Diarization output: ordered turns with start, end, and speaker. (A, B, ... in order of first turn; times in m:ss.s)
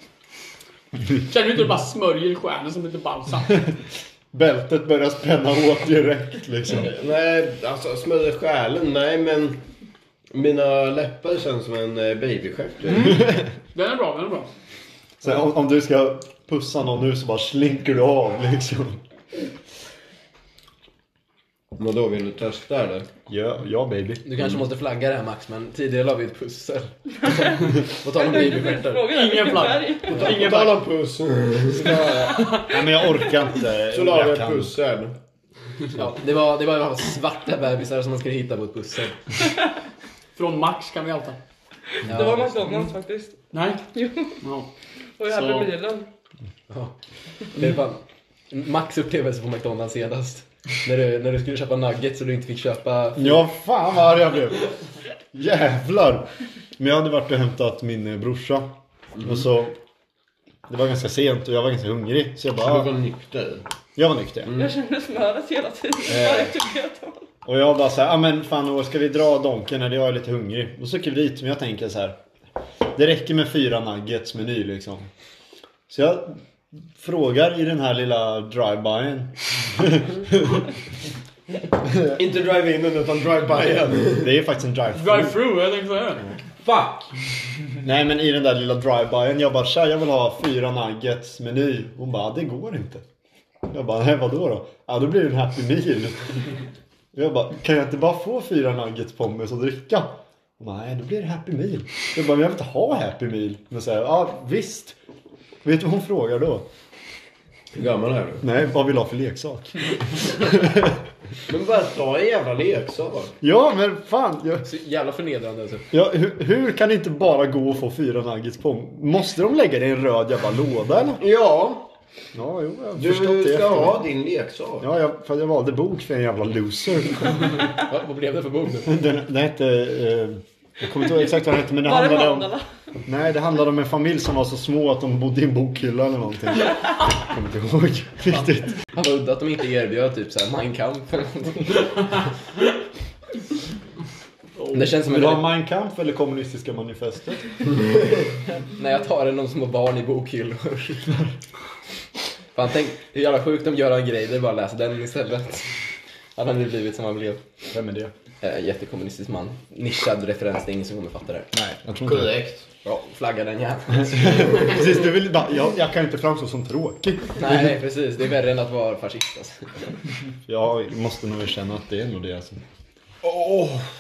0:01.3-0:03.7 A
0:04.3-0:06.9 B
0:06.8-0:09.6 C
0:10.3-0:13.2 C
0:13.7-0:14.5 A
0:15.2-0:19.0 B
0:21.8-0:23.1 C
0:23.3-0:24.2 B
0:24.2-0:29.1 D
0:28.1-0:30.3 E
0:29.1-0:30.8 A
0:30.1-0:32.1 C
0:31.8-0:32.4 D
0:32.3-0:32.8 A
0:32.6-0:34.7 B
0:33.9-0:35.2 C
0:35.9-0:39.2 D
0:40.4-0:41.4 A
0:42.1-0:43.3 E
0:42.1-0:42.6 D
0:43.5-0:43.8 A
0:44.0-0:44.3 E
0:44.4-0:44.7 A
0:45.2-0:46.1 E
0:45.3-0:45.7 A
0:47.5-0:53.5 D
0:53.2-0:54.6 B
0:55.3-0:59.8 B
1:00.7-1:02.9 B
1:02.6-1:03.7 C
1:04.0-1:04.5 B
1:04.6-1:07.2 E
1:07.4-1:12.2 B
1:12.9-1:15.1 B
1:15.9-1:20.6 B
1:21.8-1:22.1 B
1:22.1-1:24.3 C
1:24.2-1:25.4 B
1:25.0-1:26.2 A
1:27.8-1:33.0 B
1:33.7-1:36.3 B
1:37.1-1:45.0 B
1:45.6-1:46.7 B
1:47.7-1:48.4 C
1:48.4-1:51.0 B
1:51.5-1:53.4 C
1:53.4-1:54.7 B
1:54.6-1:55.8 D
1:55.9-2:01.2 B
2:01.2-2:01.9 C
2:02.4-2:04.0 B
2:03.0-2:04.9 C
2:04.8-2:07.5 B
2:07.6-2:08.9 D
2:08.8-2:12.5 B
2:11.8-2:12.6 E
2:13.0-2:18.8 B
2:18.9-2:21.8 D
2:24.7-2:25.5 D
2:25.0-2:27.5 B
2:28.5-2:31.2 D
2:32.5-2:35.7 D
2:36.4-2:37.4 D
2:37.7-2:38.1 B
2:38.4-2:41.5 D
2:41.5-2:42.3 B
2:42.0-2:42.7 C
2:42.8-2:44.8 D
2:44.0-2:47.6 B
2:47.4-2:49.7 D
2:50.5-2:52.6 B
2:53.2-2:53.8 C